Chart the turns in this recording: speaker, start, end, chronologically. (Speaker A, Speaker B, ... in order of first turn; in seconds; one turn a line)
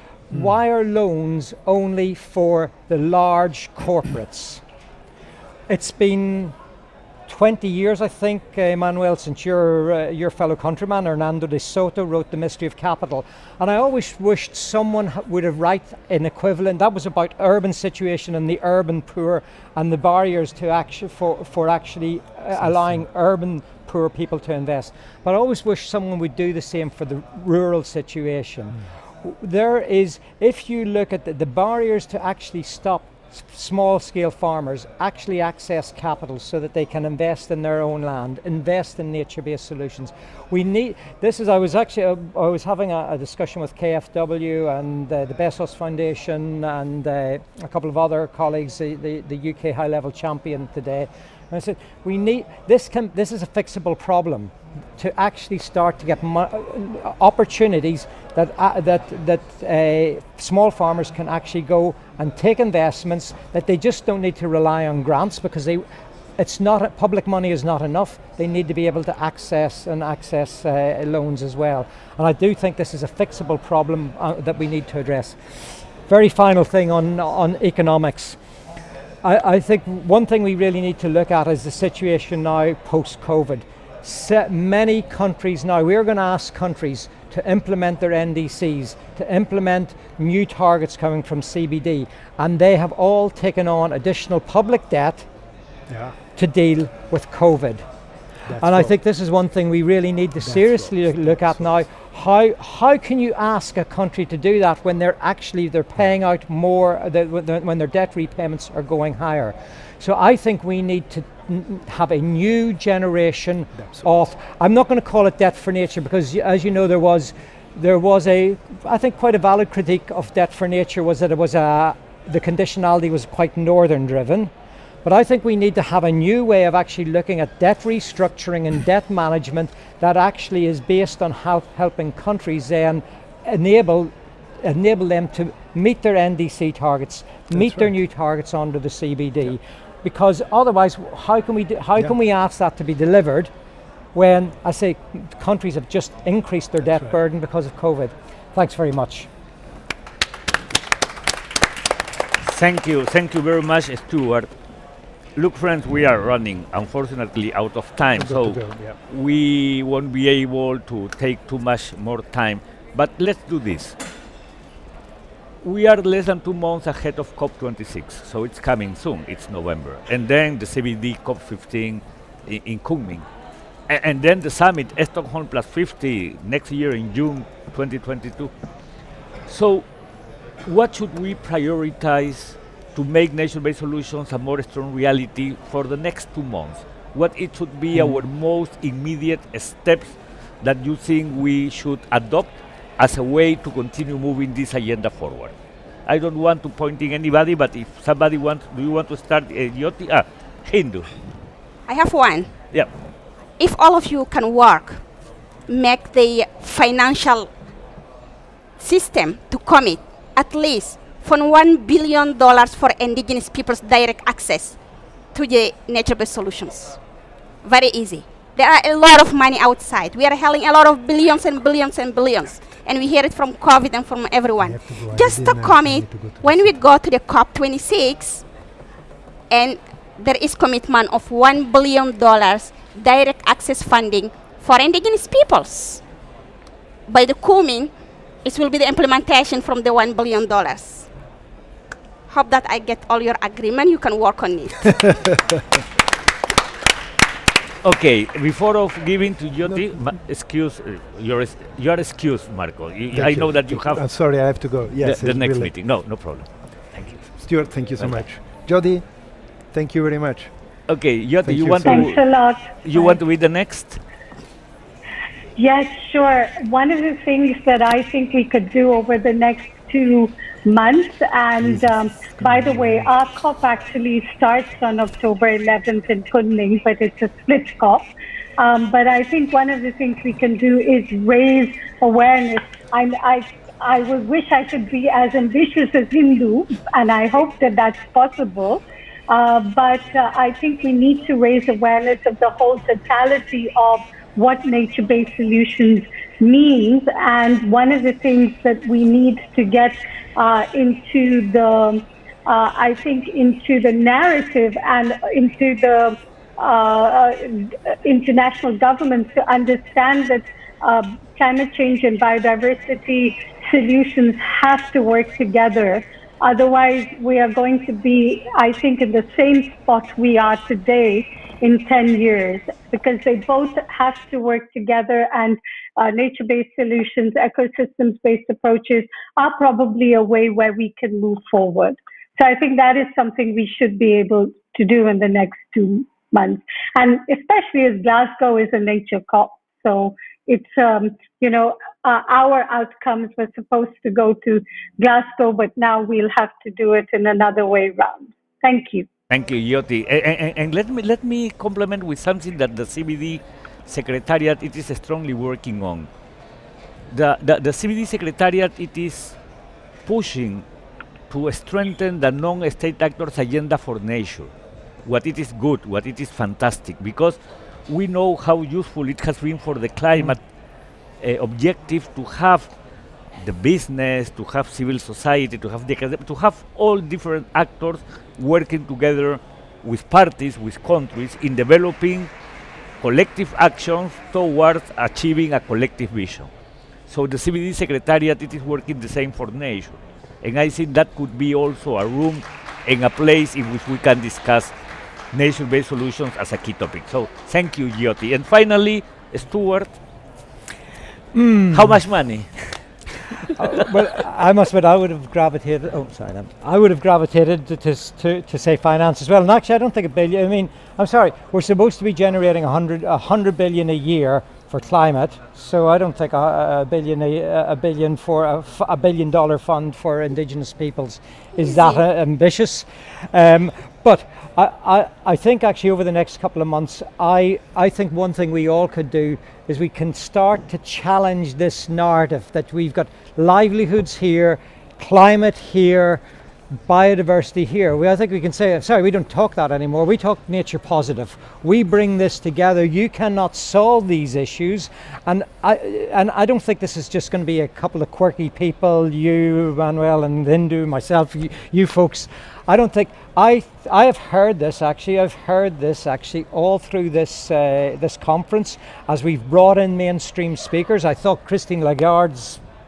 Speaker A: 0.3-4.6
Speaker A: 5.7-6.5
Speaker A: 7.3-65.8
Speaker A: 66.4-78.4
Speaker A: 79.2-95.2
Speaker B: 95.9-96.2
Speaker A: 96.3-97.8
Speaker B: 98.5-98.9
Speaker A: 98.5-124.5
Speaker B: 100.4-101.7
Speaker B: 113.8-114.1
Speaker A: 125.0-143.5
Speaker B: 137.5-137.9
Speaker A: 144.1-149.3
Speaker C: 152.4-154.5
Speaker C: 155.3-164.0
Speaker B: 158.2-158.9
Speaker C: 165.6-173.3
Speaker C: 173.9-178.5
Speaker C: 179.5-179.9
Speaker C: 180.6-195.5
Speaker C: 196.1-201.1
Speaker D: 201.9-202.5
Speaker D: 203.6-205.0
Speaker D: 205.7-207.5
Speaker D: 208.8-214.8
Speaker D: 215.3-217.0
Speaker D: 217.6-228.4
Speaker B: 224.6-226.8
Speaker D: 229.5-236.0
Speaker D: 237.1-237.9
Speaker D: 238.4-241.1
Speaker D: 242.3-245.1
Speaker C: 247.8-254.0
Speaker B: 253.1-255.7
Speaker C: 255.0-257.3
Speaker B: 257.4-259.0
Speaker B: 259.7-260.5
Speaker C: 260.9-264.0
Speaker B: 261.4-262.2
Speaker E: 261.9-263.2
Speaker E: 265.6-349.1
Speaker B: 272.5-272.8
Speaker C: 349.3-356.1
Speaker C: 357.1-359.4
Speaker C: 360.1-360.6
Speaker C: 361.3-364.5
Speaker C: 365.0-370.4
Speaker C: 371.2-372.7
Speaker C: 373.4-382.3
Speaker C: 383.0-386.5
Speaker C: 387.1-394.7
Speaker C: 395.3-400.0
Speaker A: 401.3-401.9
Speaker C: 401.7-402.9
Speaker A: 403.6-436.2
Speaker D: 421.6-422.0
Speaker A: 436.9-462.6